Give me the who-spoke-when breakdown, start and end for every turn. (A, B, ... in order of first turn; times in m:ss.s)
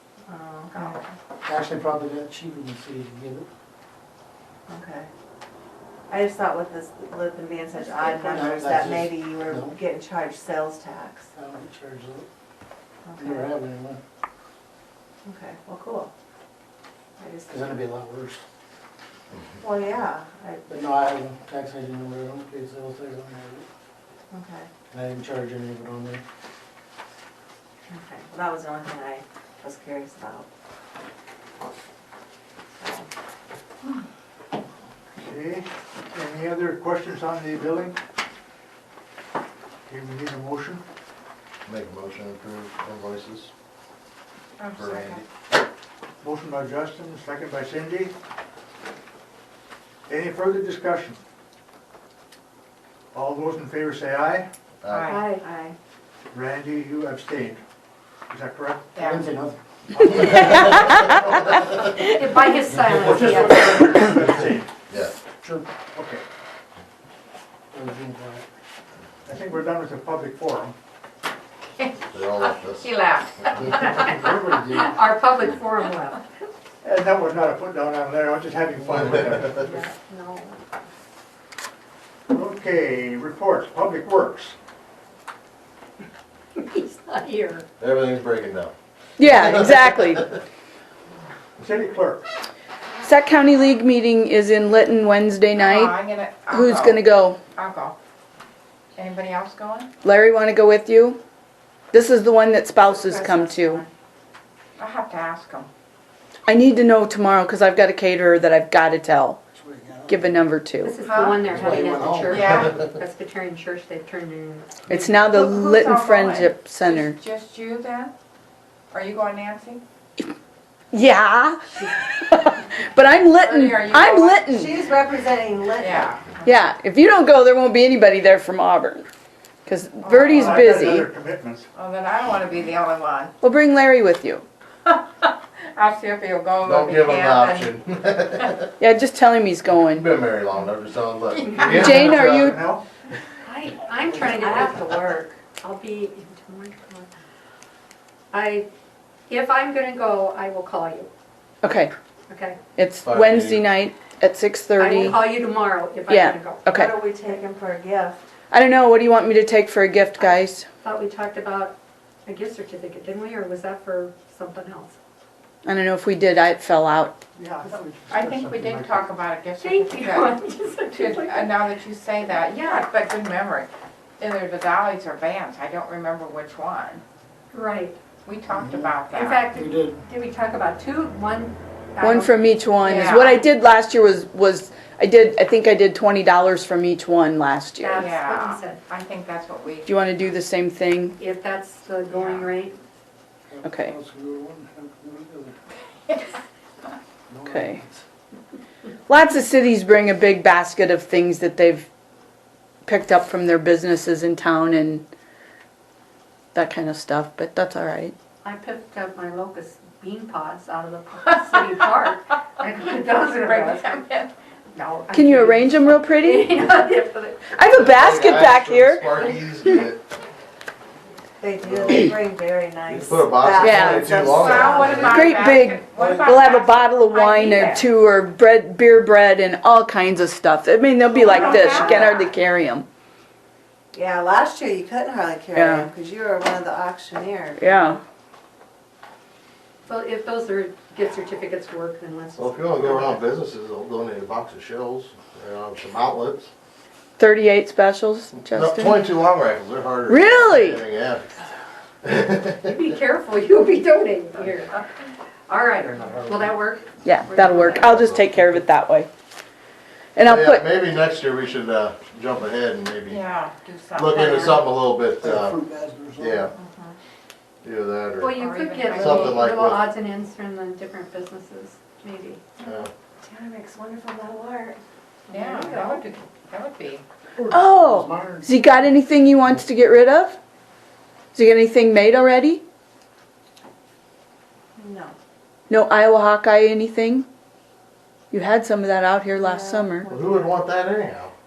0:00.3-0:01.0 A
0:00.7-0:01.0 B
0:01.4-0:03.5 C
0:04.7-0:05.1 A
0:06.1-0:11.3 A
0:08.2-0:09.8 C
0:11.3-0:12.3 C
0:13.0-0:13.5 A
0:13.2-0:14.0 C
0:15.2-0:16.1 A
0:17.2-0:17.7 A
0:17.4-0:18.4 C
0:19.6-0:20.6 A
0:20.7-0:23.6 C
0:24.3-0:24.7 A
0:24.9-0:26.2 C
0:27.9-0:30.5 A
0:32.8-0:33.1 A
0:35.2-0:38.0 D
0:39.9-0:40.8 D
0:41.6-0:43.5 E
0:44.6-0:45.2 B
0:44.8-0:45.2 E
0:46.2-0:48.1 D
0:50.1-0:51.2 D
0:53.1-0:54.5 D
0:54.8-0:55.2 E
0:54.9-0:55.3 B
0:55.1-0:55.4 F
0:55.4-0:55.7 A
0:56.3-0:57.6 D
0:58.3-0:59.0 D
0:58.9-0:59.3 B
0:59.0-1:00.8 C
1:00.1-1:01.2 D
1:02.0-1:04.2 F
1:02.9-1:04.7 D
1:04.9-1:05.2 E
1:05.4-1:05.7 C
1:05.9-1:06.2 D
1:07.7-1:08.4 C
1:09.2-1:10.7 D
1:11.8-1:14.0 B
1:12.1-1:12.9 E
1:13.7-1:16.2 F
1:14.2-1:14.7 C
1:16.8-1:19.7 D
1:19.0-1:19.6 E
1:19.4-1:20.6 F
1:22.3-1:24.5 D
1:26.5-1:27.6 F
1:27.8-1:28.7 E
1:29.2-1:30.3 G
1:29.3-1:29.7 E
1:31.6-1:32.2 D
1:33.0-1:36.0 G
1:35.5-1:37.0 B
1:36.5-1:37.4 G
1:37.5-1:38.0 B
1:39.0-1:39.9 B
1:40.0-1:41.2 G
1:41.9-1:43.8 G
1:42.8-1:43.7 A
1:44.8-1:45.7 B
1:46.5-1:49.4 G
1:49.5-1:50.5 C
1:50.1-1:51.0 G
1:50.8-1:54.7 F
1:51.0-1:51.5 B
1:51.5-1:52.8 E
1:51.6-1:52.5 C
1:52.3-1:52.7 B
1:54.9-1:57.2 G
1:55.2-1:58.1 B
1:58.9-1:59.8 B
2:00.9-2:04.7 G
2:03.4-2:04.4 B
2:04.4-2:06.1 A
2:05.8-2:06.4 B
2:06.4-2:09.0 G
2:09.6-2:11.1 G
2:10.0-2:10.7 B
2:10.2-2:11.7 D
2:11.7-2:13.3 B
2:13.4-2:14.4 G
2:14.8-2:17.7 B
2:16.6-2:18.7 E
2:18.8-2:20.0 G
2:19.9-2:22.6 E
2:21.7-2:22.6 G
2:21.7-2:22.8 D
2:23.4-2:27.1 F
2:24.1-2:25.2 A
2:28.3-2:28.7 F
2:29.3-2:31.1 F
2:31.6-2:31.9 G
2:32.3-2:32.6 F
2:32.8-2:35.3 G
2:33.0-2:33.6 E
2:34.8-2:36.7 F
2:36.1-2:37.0 G
2:36.7-2:38.2 A
2:38.5-2:40.6 G
2:40.8-2:45.0 F
2:45.6-2:47.2 G
2:47.3-2:49.1 D
2:48.1-2:50.3 B
2:49.6-2:51.6 F
2:50.9-2:53.7 B
2:52.4-2:52.9 F
2:54.2-2:57.0 B
2:57.5-2:58.0 F
2:58.2-2:59.4 B
2:58.5-2:59.0 C
2:59.1-3:03.2 F
2:59.5-3:00.0 C
3:02.0-3:08.1 G
3:02.8-3:03.4 B
3:07.8-3:08.8 F
3:08.0-3:09.9 B
3:09.8-3:11.2 G
3:11.2-3:12.8 F
3:12.1-3:12.5 B
3:13.5-3:15.6 C
3:13.6-3:13.9 G
3:17.3-3:18.0 C
3:17.5-3:17.8 G
3:19.1-3:21.9 G
3:22.8-3:25.0 G
3:26.5-3:28.1 G
3:28.4-3:34.0 F
3:33.4-3:34.3 B
3:34.7-3:37.6 F
3:35.1-3:36.6 G
3:37.5-3:39.1 G
3:37.8-3:40.0 E
3:41.4-3:45.4 A
3:41.6-3:42.1 E
3:42.9-3:45.3 E
3:43.6-3:44.1 G
3:44.1-3:47.8 B
3:45.0-3:52.8 G
3:51.1-3:52.1 B
3:51.2-3:52.2 A
3:53.9-3:58.0 A
3:55.5-3:55.9 G
3:57.6-3:58.0 G
3:59.9-4:03.0 F
4:02.4-4:06.5 E
4:07.2-4:09.0 G
4:08.5-4:11.4 E
4:10.1-4:10.8 G
4:12.0-4:12.8 E
4:12.6-4:14.8 F
4:15.5-4:17.9 F
4:16.1-4:16.5 C
4:17.0-4:19.1 G
4:17.9-4:18.3 E
4:20.2-4:20.6 G
4:20.2-4:23.2 E
4:23.1-4:24.7 B
4:23.9-4:25.6 E
4:25.2-4:26.5 C
4:26.2-4:26.5 E
4:26.6-4:27.0 B
4:27.6-4:29.9 E
4:28.2-4:32.4 F
4:28.4-4:29.5 B
4:32.6-4:32.9 E
4:33.2-4:36.0 A
4:35.3-4:37.0 B
4:37.4-4:38.6 C
4:37.5-4:40.4 G
4:41.3-4:42.6 G
4:44.8-4:45.2 A
4:45.7-4:47.2 G
4:48.3-4:50.1 G
4:49.3-4:50.6 A
4:50.1-4:51.3 E